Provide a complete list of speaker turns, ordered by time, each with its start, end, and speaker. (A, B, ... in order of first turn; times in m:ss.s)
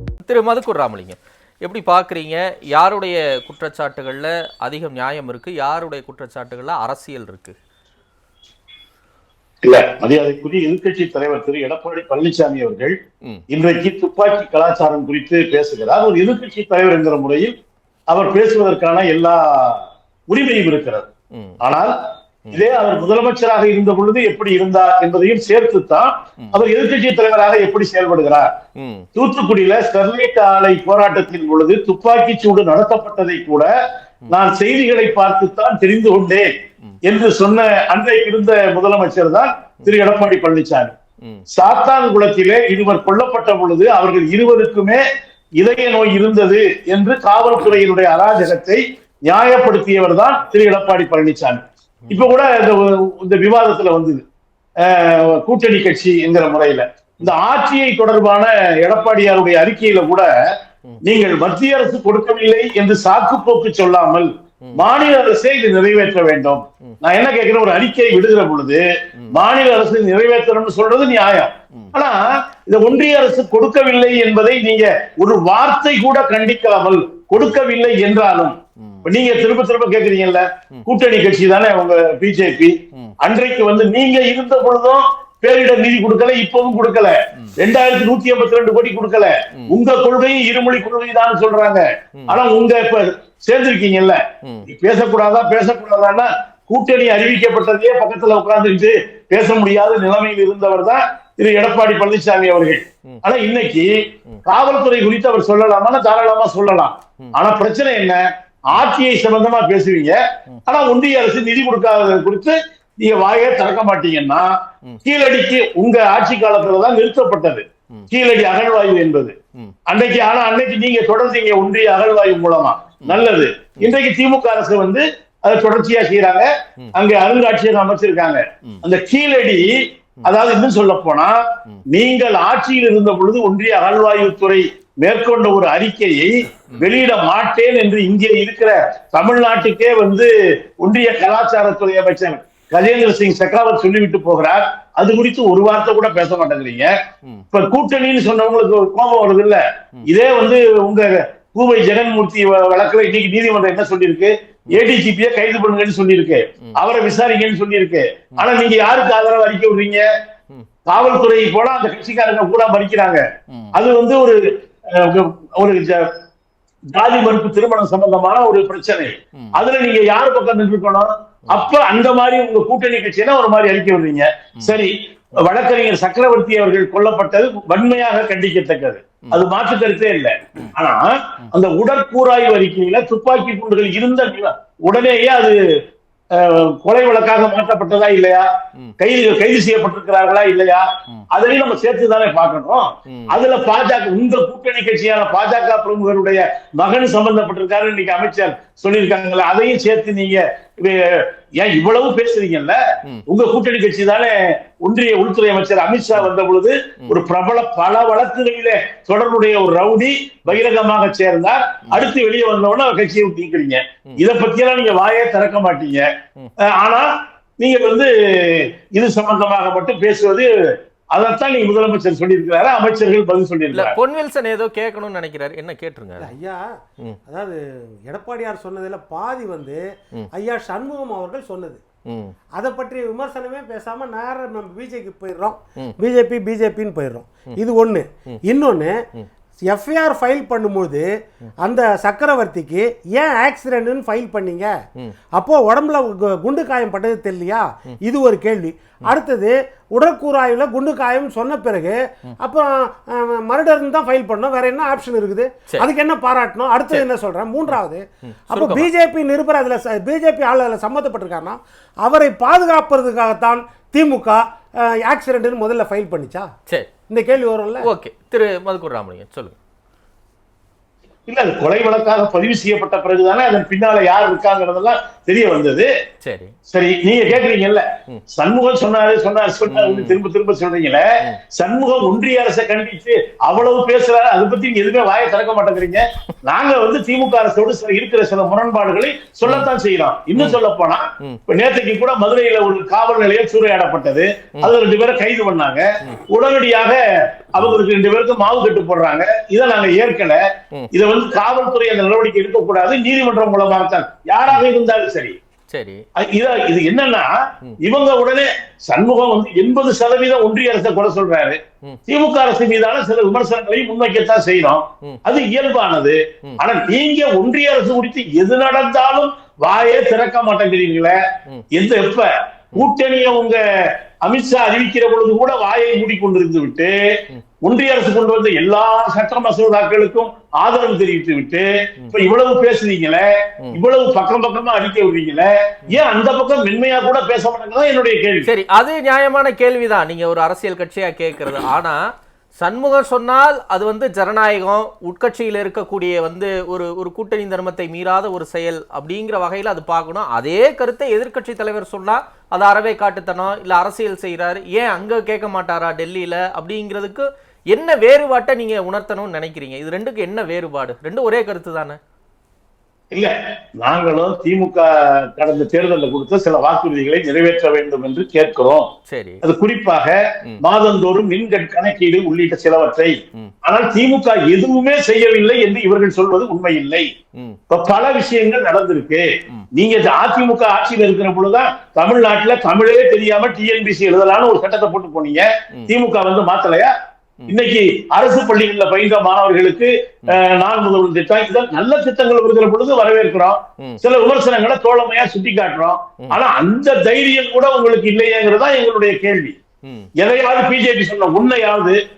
0:00.2-0:07.5 A
0:09.6-0:12.9 B
0:13.5-0:17.5 B
0:18.1-0:21.1 B
0:21.6-0:21.9 B
0:22.5-0:28.5 B
0:28.8-0:29.0 A
0:29.2-0:33.7 B
0:34.3-0:36.5 B
0:37.0-0:40.9 B
0:41.5-0:45.0 B
0:45.6-0:54.2 B
0:54.8-1:00.3 B
1:01.0-1:43.9 B
1:18.8-1:19.1 A
1:44.4-1:54.5 B
1:55.0-1:59.3 B
1:59.9-2:09.7 B
2:10.2-2:11.4 B
2:11.9-2:26.9 B
2:27.5-2:40.0 B
2:40.9-2:44.4 B
2:43.5-2:43.8 A
2:44.9-2:46.1 B
2:46.9-3:05.6 B
3:06.3-3:08.4 B
3:09.0-3:22.8 B
3:23.3-3:36.1 B
3:36.6-3:44.0 B
3:43.7-3:46.3 A
3:46.2-3:46.6 C
3:47.3-3:49.8 C
3:50.3-3:51.8 C
3:52.6-3:58.9 C
3:59.7-4:01.1 C
4:01.6-4:04.7 C
4:05.3-4:24.4 C
4:18.3-4:18.9 A
4:25.0-4:26.5 C
4:27.1-4:27.9 C
4:27.8-4:29.6 A
4:31.3-4:35.9 B
4:36.2-4:36.5 A
4:36.7-4:57.0 B
4:39.7-4:40.2 A
4:57.5-5:00.4 B
5:00.9-5:05.4 B
5:05.7-5:06.0 A
5:06.2-5:07.3 B
5:07.8-5:21.2 B
5:21.7-5:23.6 B
5:24.2-5:26.9 B
5:27.6-5:38.5 B
5:38.4-5:42.0 A
5:42.6-6:02.0 A
6:03.1-6:08.9 B
6:09.1-6:09.4 A
6:09.4-6:17.0 B
6:17.7-6:26.9 B
6:27.5-6:39.6 B
6:39.8-6:40.1 A
6:40.2-6:42.0 B